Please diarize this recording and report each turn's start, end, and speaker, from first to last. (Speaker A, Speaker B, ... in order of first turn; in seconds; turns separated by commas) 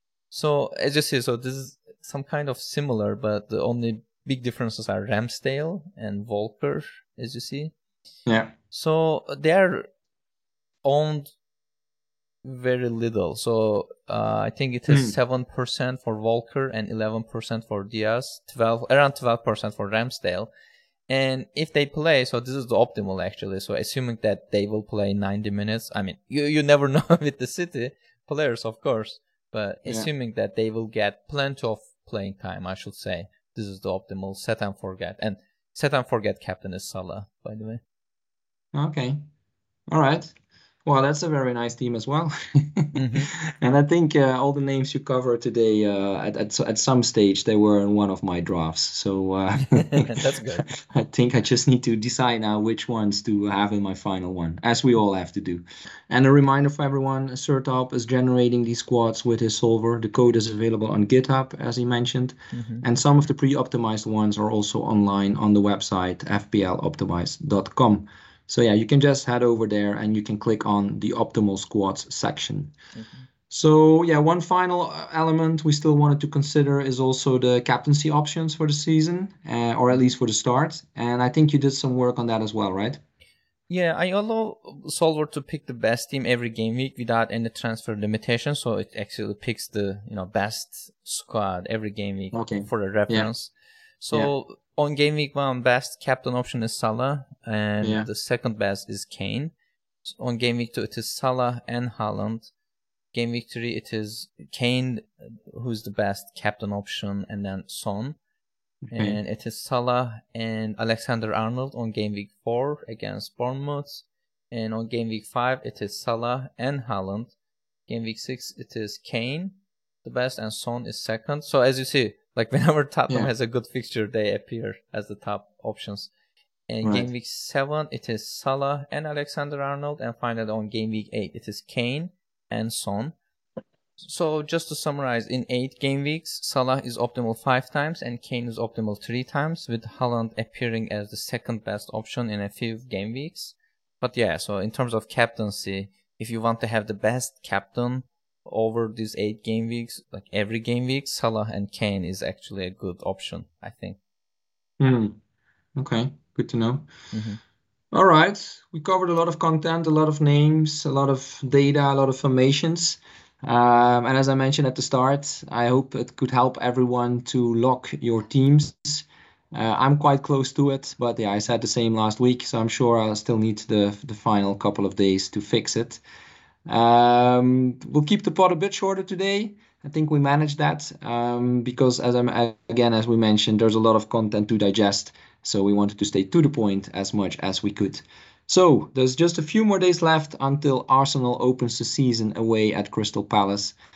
Speaker A: 0.3-7.7, Speaker B: 8.3-8.5, Speaker A: 8.7-9.9, Speaker A: 10.8-11.3, Speaker A: 12.4-20.5, Speaker B: 14.9-15.2, Speaker A: 21.1-37.8, Speaker B: 38.7-39.2, Speaker B: 39.9-40.3, Speaker B: 40.9-72.7, Speaker A: 43.0-43.3, Speaker A: 49.6-50.7, Speaker A: 62.5-62.9, Speaker A: 73.0-73.3, Speaker B: 73.5-83.0, Speaker A: 83.7-99.5, Speaker B: 92.3-93.3, Speaker B: 97.8-98.1, Speaker A: 100.0-102.5, Speaker A: 103.1-108.2, Speaker B: 108.9-109.2, Speaker A: 108.9-117.3, Speaker A: 117.9-126.1, Speaker A: 126.7-133.2, Speaker B: 126.8-127.1, Speaker A: 134.0-154.0, Speaker B: 154.8-155.2, Speaker B: 155.8-156.9, Speaker A: 157.1-157.4, Speaker B: 157.9-176.0, Speaker B: 176.7-193.8